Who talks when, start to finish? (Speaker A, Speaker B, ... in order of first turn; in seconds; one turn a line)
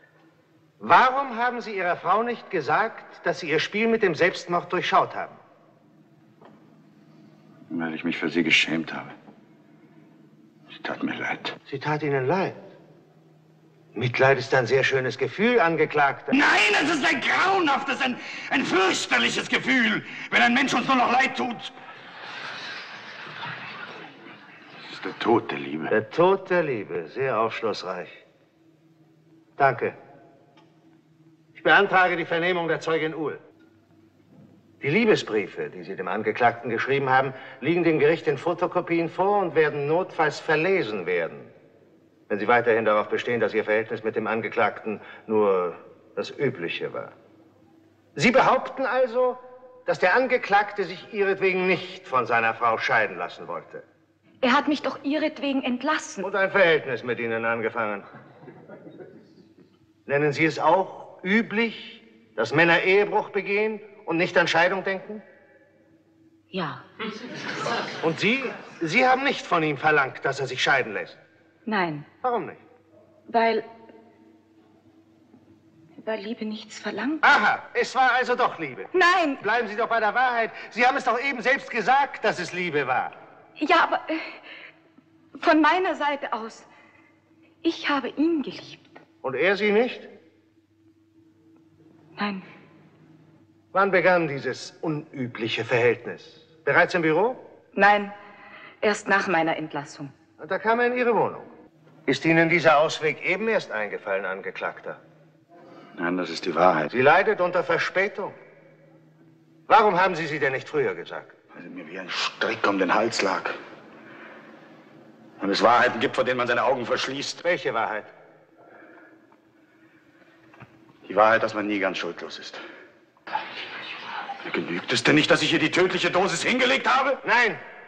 Speaker A: 0.8-5.4
Speaker B: 7.7-9.1
Speaker B: 10.7-11.6
Speaker A: 11.7-12.6
Speaker A: 13.9-16.3
Speaker B: 16.3-21.7
Speaker B: 24.9-25.9
Speaker A: 25.9-28.2
Speaker A: 29.6-30.0
Speaker A: 31.5-33.4
Speaker A: 34.8-41.5
Speaker A: 42.3-47.1
Speaker A: 48.1-53.8
Speaker C: 54.4-56.3
Speaker A: 56.2-58.0
Speaker A: 60.0-65.2
Speaker C: 66.5-66.8
Speaker A: 68.0-71.2
Speaker C: 71.7-72.0
Speaker A: 72.2-72.6
Speaker C: 73.3-73.7
Speaker C: 76.0-77.2
Speaker A: 77.2-83.1
Speaker C: 78.9-79.4
Speaker C: 83.6-84.3
Speaker C: 85.4-86.7
Speaker C: 87.6-88.9
Speaker A: 89.2-90.1
Speaker C: 92.2-92.4
Speaker A: 93.7-97.4
Speaker C: 97.7-98.1
Speaker C: 98.8-100.1
Speaker A: 100.4-101.5
Speaker A: 102.1-105.0
Speaker B: 106.0-106.9
Speaker A: 106.9-108.3
Speaker A: 109.7-111.3
Speaker B: 111.5-113.6
Speaker B: 115.4-117.4
Speaker A: 117.4-118.1
Speaker B: 121.0-122.6
Speaker B: 124.4-127.2
Speaker A: 127.2-127.6